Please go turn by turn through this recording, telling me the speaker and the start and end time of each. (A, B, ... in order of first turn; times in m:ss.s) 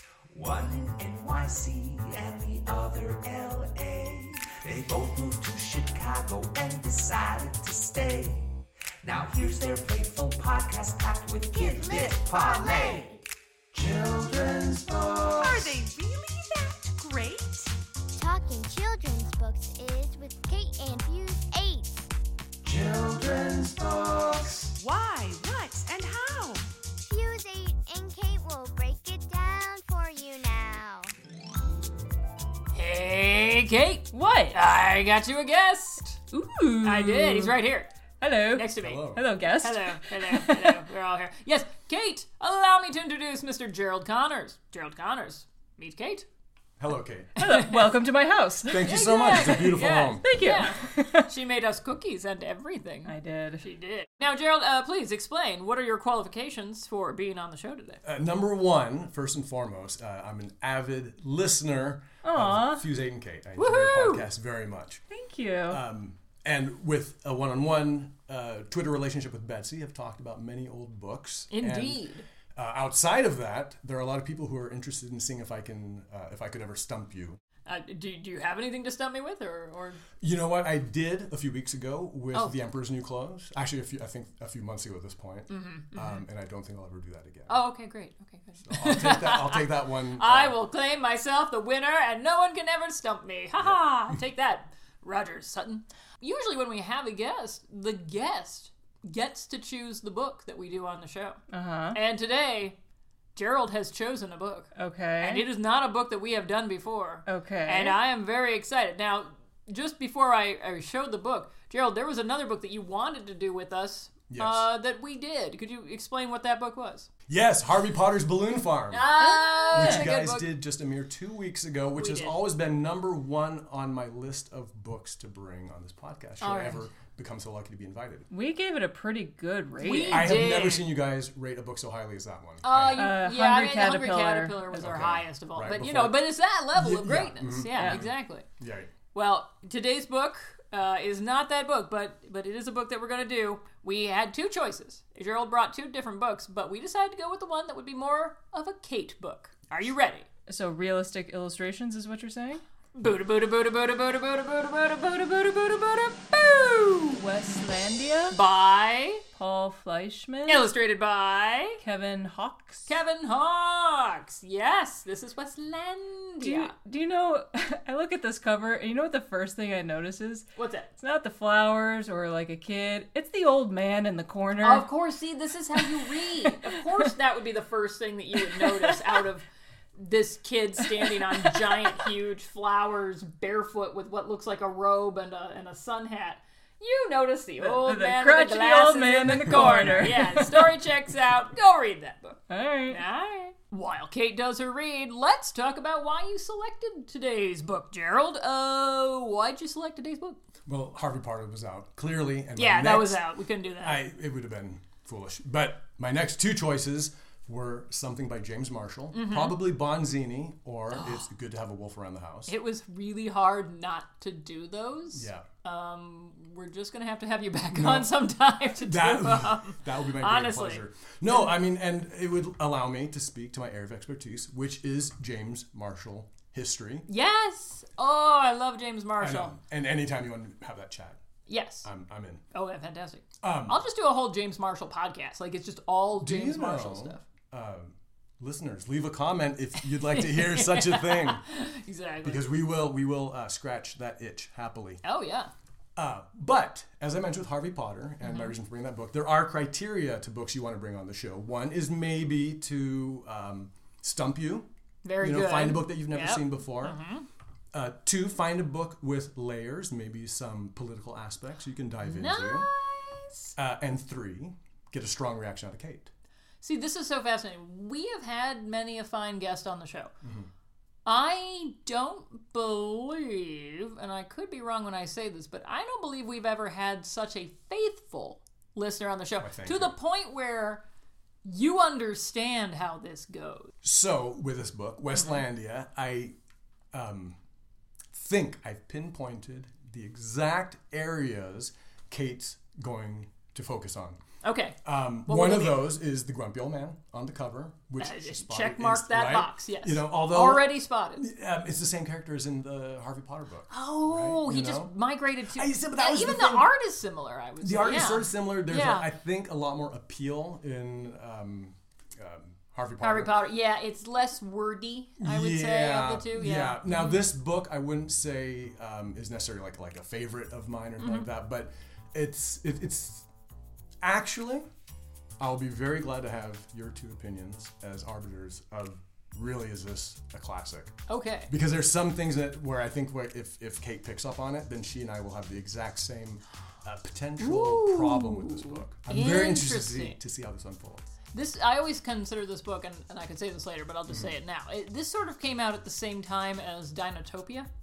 0:00.3-0:13.2 A
0:11.8-0:13.0 B
0:13.7-0:15.8 A
0:15.4-0:17.7 C
0:18.2-0:22.0 B
0:22.6-0:24.8 A
0:24.8-0:26.6 C
0:27.0-0:31.1 B
0:32.7-0:36.2 D
0:34.1-0:34.6 E
0:36.3-0:37.6 E
0:36.8-0:37.9 D
0:38.2-0:40.8 E
0:38.5-0:46.3 D
0:38.8-0:39.2 F
0:46.8-0:47.3 F
0:47.4-0:47.9 D
0:47.4-0:49.7 E
0:48.7-0:50.2 F
0:48.7-0:58.0 D
0:50.2-0:51.3 E
0:53.0-0:53.6 E
0:58.0-1:05.0 F
1:02.2-1:02.8 E
1:03.6-1:04.2 D
1:05.1-1:05.8 E
1:05.7-1:17.4 F
1:11.5-1:12.2 D
1:17.7-1:20.0 D
1:20.2-1:27.6 F
1:25.5-1:26.2 D
1:27.5-1:41.4 D
1:28.6-1:30.6 F
1:33.6-1:34.2 F
1:41.5-1:42.0 E
1:41.9-1:42.8 D
1:43.3-1:57.1 D
1:44.8-1:45.4 E
1:47.3-1:48.0 E
1:54.3-1:54.7 F
1:57.3-1:59.2 F
1:58.9-2:00.5 D
1:59.2-2:00.1 E
1:59.7-2:08.3 F
2:02.0-2:02.4 D
2:06.4-2:06.8 D
2:08.3-2:10.4 E
2:09.8-2:10.9 D
2:10.1-2:13.1 F
2:12.6-2:18.5 D
2:12.9-2:14.8 E
2:14.7-2:18.9 F
2:17.7-2:18.0 E
2:19.1-2:30.3 D
2:30.5-2:32.6 E
2:33.0-2:37.2 D
2:37.1-2:38.4 E
2:38.3-2:39.2 D
2:39.3-2:40.7 E
2:40.5-2:41.8 D
2:41.8-2:42.9 E
2:42.9-2:46.7 D
2:46.4-2:50.4 E
2:50.6-2:50.9 D
2:51.0-2:54.9 E
2:54.6-3:20.4 D
2:56.4-2:57.1 E
2:58.5-2:59.2 E
3:01.0-3:02.1 E
3:07.6-3:10.8 E
3:09.5-3:10.1 F
3:12.5-3:13.0 E
3:20.7-3:23.2 F
3:22.6-3:24.0 D
3:23.8-3:32.5 F
3:29.1-3:29.6 D
3:30.9-3:31.2 D
3:32.5-3:40.8 D
3:35.1-3:35.5 F
3:37.7-3:38.1 F
3:38.8-3:47.1 F
3:47.1-3:49.6 D
3:49.2-3:51.2 F
3:51.5-3:51.9 D
3:51.8-3:52.4 F
3:52.5-3:57.2 D
3:53.4-3:53.8 F
3:56.2-4:01.4 F
3:59.8-4:02.5 D
4:02.2-4:05.0 F
4:05.0-4:05.5 D
4:06.0-4:14.7 F
4:08.2-4:08.5 D
4:15.0-4:17.3 D
4:15.2-4:17.0 F
4:17.7-4:22.7 F
4:22.0-4:23.5 D
4:23.6-4:26.1 F
4:26.6-4:30.1 D
4:30.2-4:30.5 F
4:31.0-4:40.8 D
4:39.4-4:39.9 F
4:41.4-4:43.7 D
4:43.8-4:46.3 F
4:46.9-4:47.4 F
4:48.1-4:54.2 F
4:54.4-4:55.9 D
4:54.8-5:04.9 F
4:58.0-5:01.3 D
5:03.7-5:09.1 D
5:05.5-5:06.7 F
5:07.6-5:13.3 F
5:13.0-5:17.3 D
5:15.2-5:23.3 F
5:21.0-5:21.3 D
5:24.0-5:24.7 F
5:25.4-5:31.0 F
5:31.1-5:31.5 D
5:31.5-5:41.0 F
5:37.4-5:40.2 D
5:41.3-5:47.7 D
5:44.1-5:44.3 F